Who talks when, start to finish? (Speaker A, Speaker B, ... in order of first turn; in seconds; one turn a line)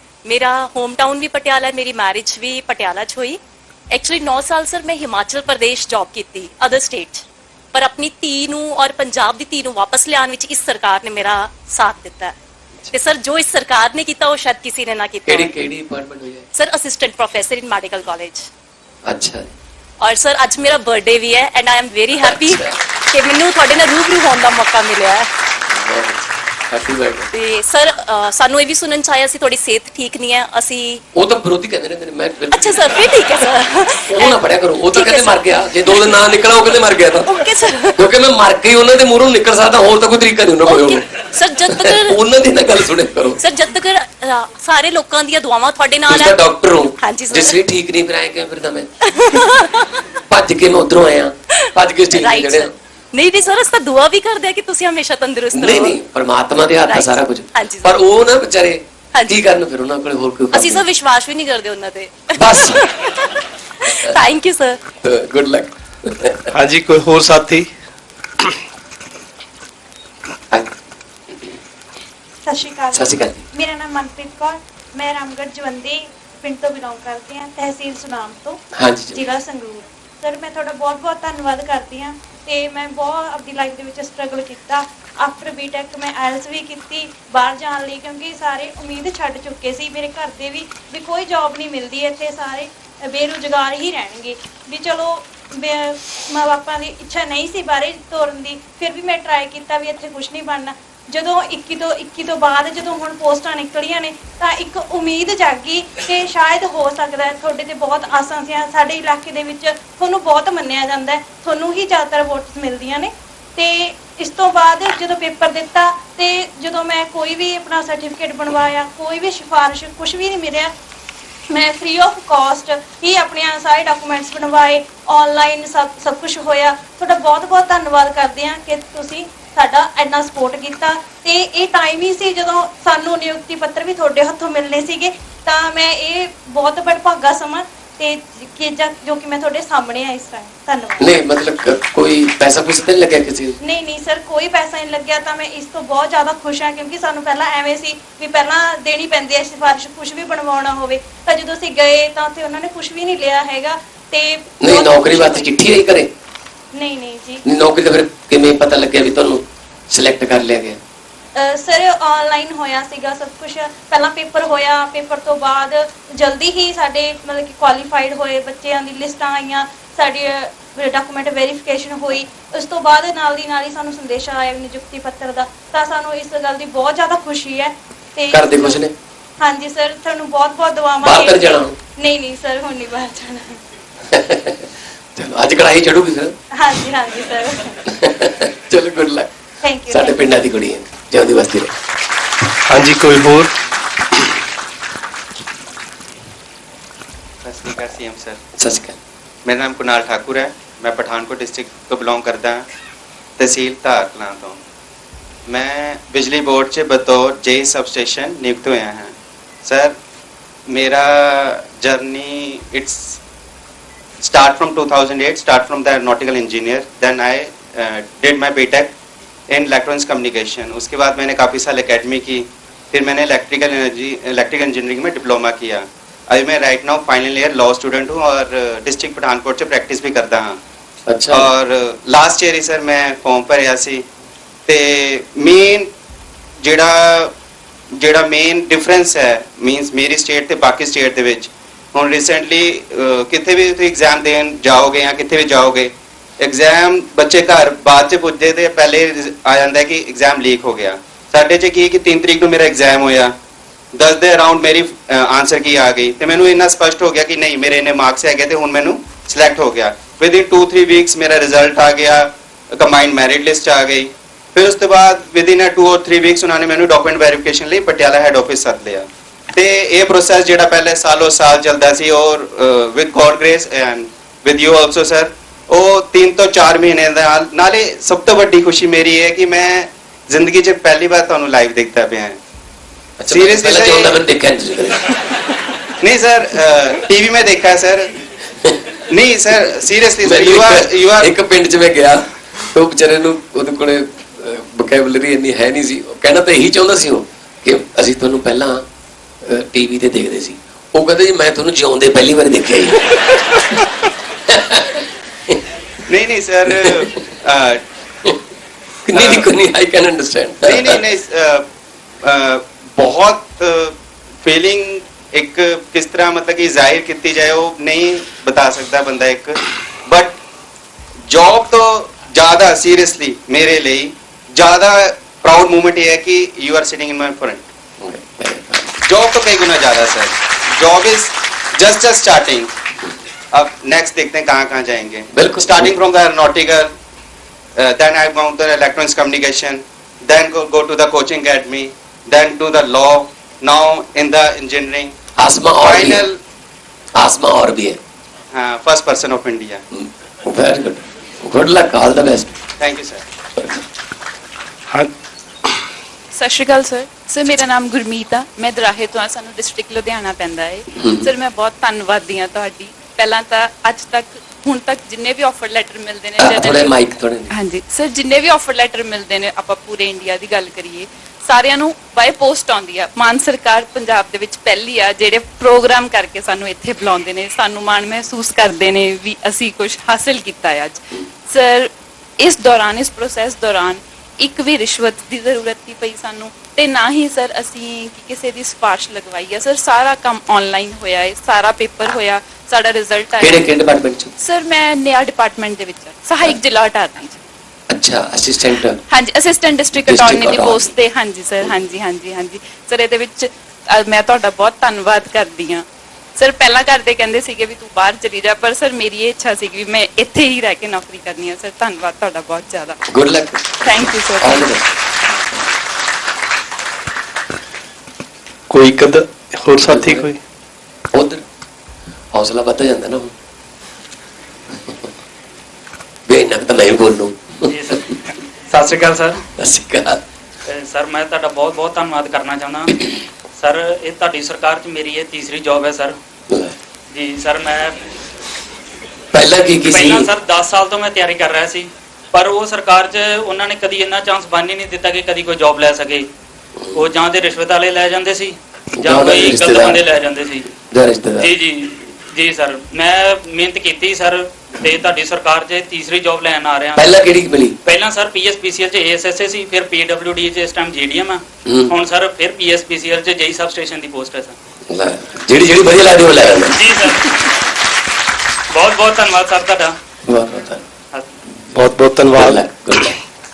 Speaker A: 0.2-3.4
Speaker A: 3.9-12.3
Speaker A: 12.9-15.6
Speaker B: 15.3-16.5
Speaker A: 16.5-18.5
Speaker B: 19.1-19.5
Speaker A: 20.0-25.3
Speaker B: 22.2-22.8
Speaker B: 25.7-27.3
Speaker A: 27.3-31.0
Speaker B: 31.1-33.0
Speaker A: 32.5-36.4
Speaker B: 34.1-37.3
Speaker A: 37.3-38.0
Speaker B: 38.0-41.1
Speaker A: 40.6-42.2
Speaker B: 41.6-43.4
Speaker A: 43.4-46.4
Speaker B: 46.1-48.9
Speaker A: 47.0-47.6
Speaker A: 49.1-50.0
Speaker B: 50.3-52.7
Speaker A: 51.6-56.0
Speaker B: 55.5-60.8
Speaker A: 56.9-57.9
Speaker A: 60.5-64.8
Speaker B: 62.4-62.8
Speaker B: 65.0-66.6
Speaker C: 66.5-67.7
Speaker D: 72.5-120.7
Speaker B: 72.9-73.4
Speaker B: 78.8-79.2
Speaker D: 121.5-141.1
Speaker B: 141.0-143.6
Speaker D: 143.6-155.5
Speaker B: 154.6-156.1
Speaker D: 156.7-157.4
Speaker B: 157.5-160.8
Speaker D: 161.3-178.8
Speaker B: 178.3-178.9
Speaker D: 179.4-183.6
Speaker B: 181.0-181.8
Speaker B: 184.1-186.4
Speaker D: 186.6-187.8
Speaker B: 188.0-189.3
Speaker D: 189.6-190.3
Speaker B: 189.9-191.7
Speaker C: 192.7-193.5
Speaker E: 197.4-198.4
Speaker B: 198.6-199.0
Speaker E: 199.4-202.7
Speaker E: 203.4-204.6
Speaker E: 205.5-210.0
Speaker E: 210.7-213.2
Speaker E: 214.2-218.9
Speaker E: 219.5-230.6
Speaker B: 231.1-231.5
Speaker E: 231.3-234.1
Speaker E: 234.7-235.9
Speaker E: 236.6-237.3
Speaker E: 238.0-253.3
Speaker E: 253.9-282.4
Speaker B: 283.2-285.0
Speaker E: 283.3-284.2
Speaker E: 286.0-288.1
Speaker E: 289.1-291.3
Speaker B: 290.2-298.9
Speaker B: 299.4-303.2
Speaker B: 304.5-305.0
Speaker E: 306.1-307.8
Speaker B: 306.8-307.1
Speaker B: 309.1-311.0
Speaker E: 309.1-309.5
Speaker E: 310.6-311.6
Speaker E: 312.2-320.4
Speaker E: 321.3-327.6
Speaker B: 328.0-328.9
Speaker E: 329.0-332.7
Speaker E: 333.5-336.9
Speaker B: 335.3-335.9
Speaker E: 337.8-345.1
Speaker B: 345.4-346.2
Speaker E: 345.8-346.4
Speaker B: 347.2-348.0
Speaker E: 348.5-349.8
Speaker B: 349.9-352.6
Speaker E: 352.8-353.2
Speaker F: 356.3-366.9
Speaker B: 366.4-367.5
Speaker F: 367.5-393.7
Speaker B: 393.4-394.3
Speaker F: 394.4-397.4
Speaker B: 397.9-399.0
Speaker F: 399.1-405.9
Speaker B: 400.0-400.9
Speaker F: 406.4-413.0
Speaker B: 413.1-414.9
Speaker F: 413.8-414.7
Speaker C: 418.7-420.4
Speaker B: 419.9-420.3
Speaker B: 421.1-421.4
Speaker B: 422.3-423.3
Speaker B: 426.3-427.8
Speaker G: 427.7-429.4
Speaker B: 429.6-430.2
Speaker G: 430.7-436.2
Speaker B: 436.5-436.8
Speaker G: 437.1-438.0
Speaker B: 439.3-440.3
Speaker G: 439.9-446.3
Speaker G: 446.9-450.7
Speaker B: 449.0-450.0
Speaker B: 450.9-451.5
Speaker G: 451.4-457.1
Speaker B: 457.0-457.8
Speaker G: 457.8-464.6
Speaker B: 461.6-461.9
Speaker B: 464.9-466.9
Speaker G: 466.7-467.5
Speaker G: 468.7-470.0
Speaker B: 470.3-470.8
Speaker C: 471.7-472.6
Speaker B: 472.3-473.2